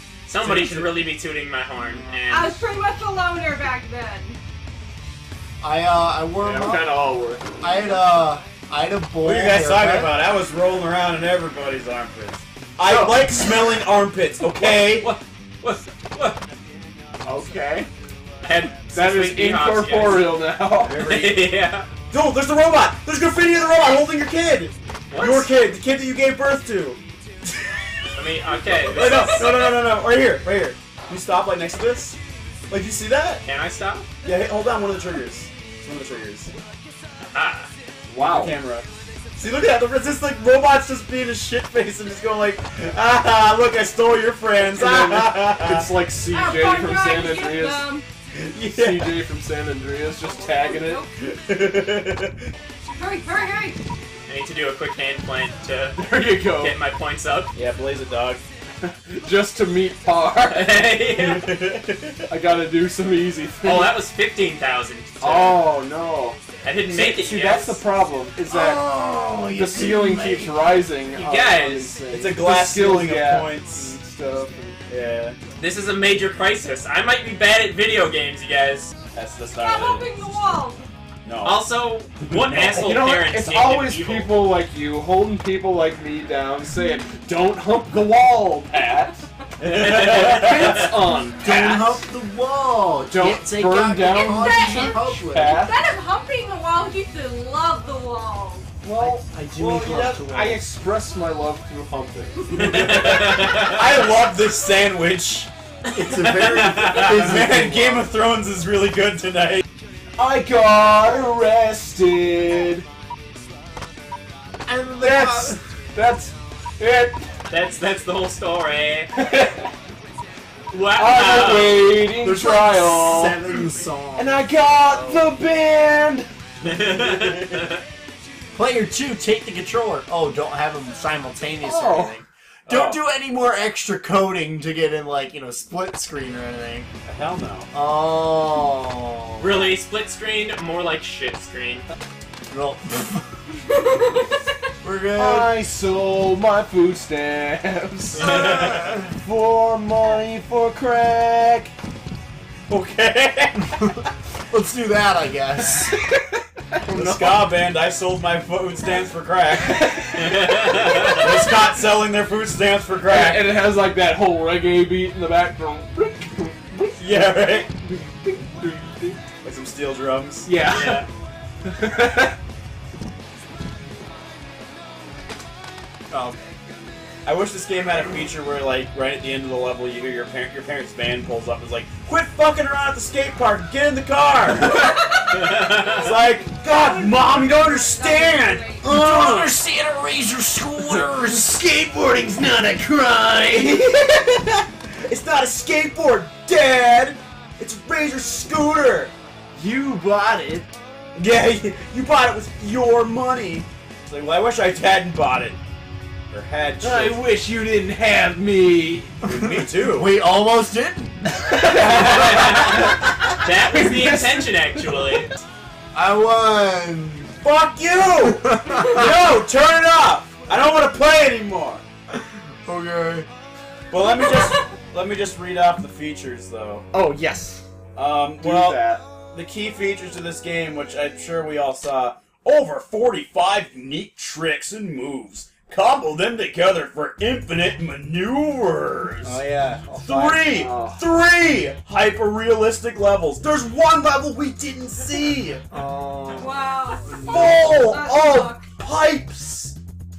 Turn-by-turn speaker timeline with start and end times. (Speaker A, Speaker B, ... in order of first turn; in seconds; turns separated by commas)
Speaker A: 0.2-2.6, Speaker B: 0.4-1.0, Speaker C: 2.3-4.4, Speaker D: 5.6-7.0, Speaker E: 6.4-7.4, Speaker D: 7.6-10.2, Speaker B: 9.2-15.1, Speaker E: 12.9-13.2, Speaker A: 14.5-16.4, Speaker E: 17.2-17.9, Speaker A: 18.4-20.4, Speaker E: 18.9-20.9, Speaker B: 20.8-21.5, Speaker A: 20.9-21.9, Speaker B: 22.1-27.0, Speaker A: 25.1-25.5, Speaker A: 28.1-29.8, Speaker B: 28.6-32.2, Speaker B: 32.7-33.4, Speaker A: 33.4-34.1, Speaker B: 34.2-36.5, Speaker A: 37.2-37.7, Speaker E: 38.1-38.5, Speaker B: 38.2-45.9, Speaker E: 44.7-47.9, Speaker C: 46.3-48.0, Speaker B: 48.3-49.2, Speaker E: 48.6-51.0, Speaker C: 50.2-51.1, Speaker B: 51.2-52.5, Speaker C: 52.9-53.8, Speaker A: 54.2-57.5, Speaker E: 56.0-56.7, Speaker B: 57.5-58.4, Speaker E: 58.8-60.7, Speaker A: 60.4-61.5, Speaker B: 61.2-62.3, Speaker E: 62.3-63.9, Speaker A: 63.6-65.6, Speaker E: 65.2-68.8, Speaker A: 66.6-67.8, Speaker D: 68.5-71.5, Speaker E: 69.5-74.8, Speaker A: 71.2-72.0, Speaker B: 72.1-74.0, Speaker B: 74.9-75.4, Speaker A: 75.5-78.9, Speaker B: 79.1-80.6, Speaker C: 79.6-80.8, Speaker B: 81.2-81.7, Speaker A: 81.4-84.5, Speaker B: 82.2-82.9, Speaker E: 82.9-89.2, Speaker B: 89.6-90.9, Speaker A: 89.7-91.0, Speaker E: 90.1-91.4, Speaker D: 91.4-95.7, Speaker B: 91.5-91.9, Speaker E: 93.1-95.7, Speaker C: 94.0-98.7, Speaker E: 98.8-102.5, Speaker D: 98.9-100.7, Speaker B: 99.6-100.1, Speaker A: 102.5-104.2, Speaker B: 102.5-105.5, Speaker D: 105.9-108.1, Speaker B: 106.6-109.6, Speaker A: 106.8-107.1, Speaker E: 110.2-112.8, Speaker D: 114.7-115.6, Speaker E: 115.0-117.2, Speaker A: 117.5-119.1, Speaker E: 119.2-119.6, Speaker A: 120.7-121.8, Speaker E: 120.9-123.6, Speaker D: 122.1-125.3, Speaker E: 124.1-126.3, Speaker A: 126.6-127.8, Speaker B: 126.8-127.7, Speaker D: 128.5-136.9, Speaker E: 131.6-132.2, Speaker B: 132.7-133.0, Speaker B: 137.1-137.7, Speaker D: 137.7-139.7, Speaker A: 139.4-141.8, Speaker D: 142.5-143.2, Speaker C: 143.7-144.4, Speaker D: 144.8-145.6, Speaker E: 145.2-148.3, Speaker B: 148.2-148.9, Speaker D: 148.2-149.2, Speaker E: 149.2-151.7, Speaker B: 152.7-153.7, Speaker D: 154.5-155.9, Speaker E: 156.0-157.5, Speaker B: 156.9-160.1, Speaker A: 160.2-161.2, Speaker B: 161.0-163.5, Speaker E: 163.0-167.0, Speaker B: 167.0-167.7, Speaker E: 167.9-169.2, Speaker B: 169.4-170.5, Speaker E: 170.5-171.1, Speaker A: 170.6-171.1, Speaker E: 171.6-172.4, Speaker D: 176.1-176.4, Speaker B: 177.2-184.9, Speaker C: 184.7-188.8, Speaker A: 185.3-185.8, Speaker B: 185.8-189.6, Speaker D: 188.8-193.9, Speaker B: 193.9-199.1, Speaker D: 199.5-200.7, Speaker B: 201.1-205.6, Speaker B: 206.3-207.2, Speaker E: 206.8-209.2, Speaker B: 209.2-210.1, Speaker D: 209.4-212.3, Speaker E: 211.5-212.9, Speaker B: 211.7-212.5, Speaker A: 211.9-215.4, Speaker E: 213.7-214.9, Speaker D: 215.9-217.3, Speaker B: 217.4-221.8, Speaker D: 218.2-219.1, Speaker D: 222.2-223.3, Speaker B: 223.9-226.8, Speaker D: 226.9-227.6, Speaker B: 227.9-239.4, Speaker E: 228.4-228.7, Speaker D: 239.2-240.5, Speaker B: 240.0-245.6, Speaker E: 240.6-241.0, Speaker D: 245.7-247.6, Speaker C: 246.4-248.7, Speaker B: 247.2-249.8